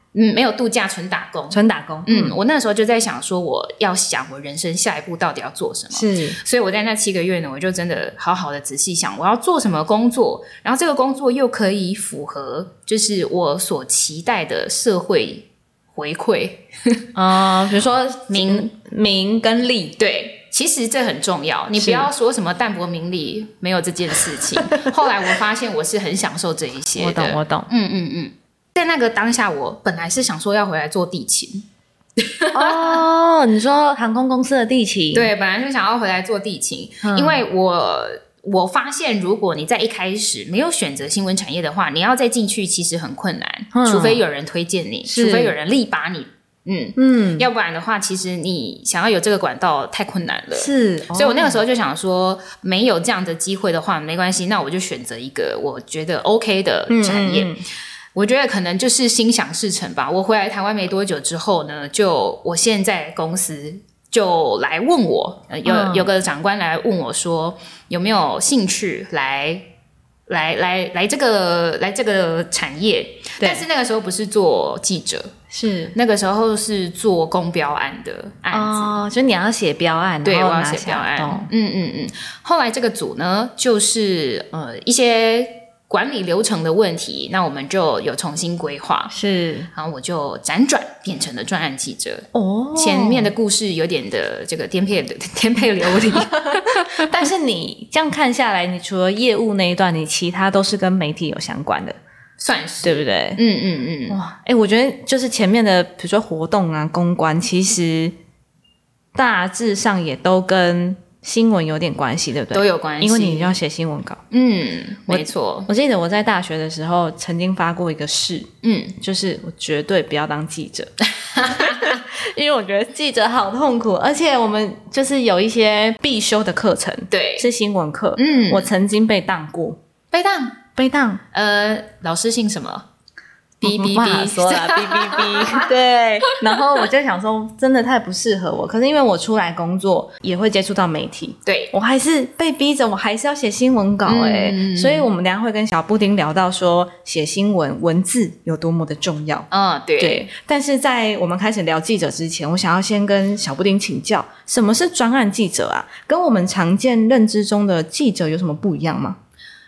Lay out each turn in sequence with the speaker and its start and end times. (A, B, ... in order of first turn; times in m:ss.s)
0:00.1-0:17.0 A
0:01.5-0:02.4 B
0:05.9-0:06.4 B
0:17.2-0:20.0 B
0:18.3-0:18.7 A
0:20.0-0:31.7 A
0:21.8-0:22.1 B
0:27.0-0:27.7 B
0:32.2-0:33.0 A
0:32.5-0:35.3 B
0:35.1-0:57.5 A
0:37.0-0:37.4 B
0:43.7-0:44.2 B
0:45.1-0:45.5 B
0:47.0-0:47.5 B
0:50.5-0:51.6 B
0:56.9-0:57.6 B
0:58.2-1:09.7 A
1:05.7-1:06.1 B
1:10.3-1:15.4 A
1:13.4-1:13.6 B
1:15.5-1:15.9 B
1:15.9-1:18.9 A
1:18.5-1:21.5 B
1:20.2-1:29.1 A
1:29.1-1:29.7 B
1:29.7-1:37.2 A
1:32.3-1:33.3 B
1:35.9-1:42.0 B
1:42.4-1:44.2 A
1:42.8-1:43.4 B
1:44.1-1:48.1 B
1:49.1-1:54.2 B
1:52.5-1:53.6 A
1:54.3-1:55.7 A
1:55.1-2:09.8 B
1:58.6-1:59.0 A
2:01.2-2:02.0 A
2:07.1-2:07.5 A
2:08.2-2:08.7 A
2:10.1-2:10.6 A
2:10.8-2:11.2 B
2:11.3-2:12.9 A
2:13.6-2:15.7 A
2:13.6-2:29.5 B
2:21.5-2:21.7 A
2:24.1-2:25.1 A
2:29.5-2:30.3 A
2:30.0-2:39.2 B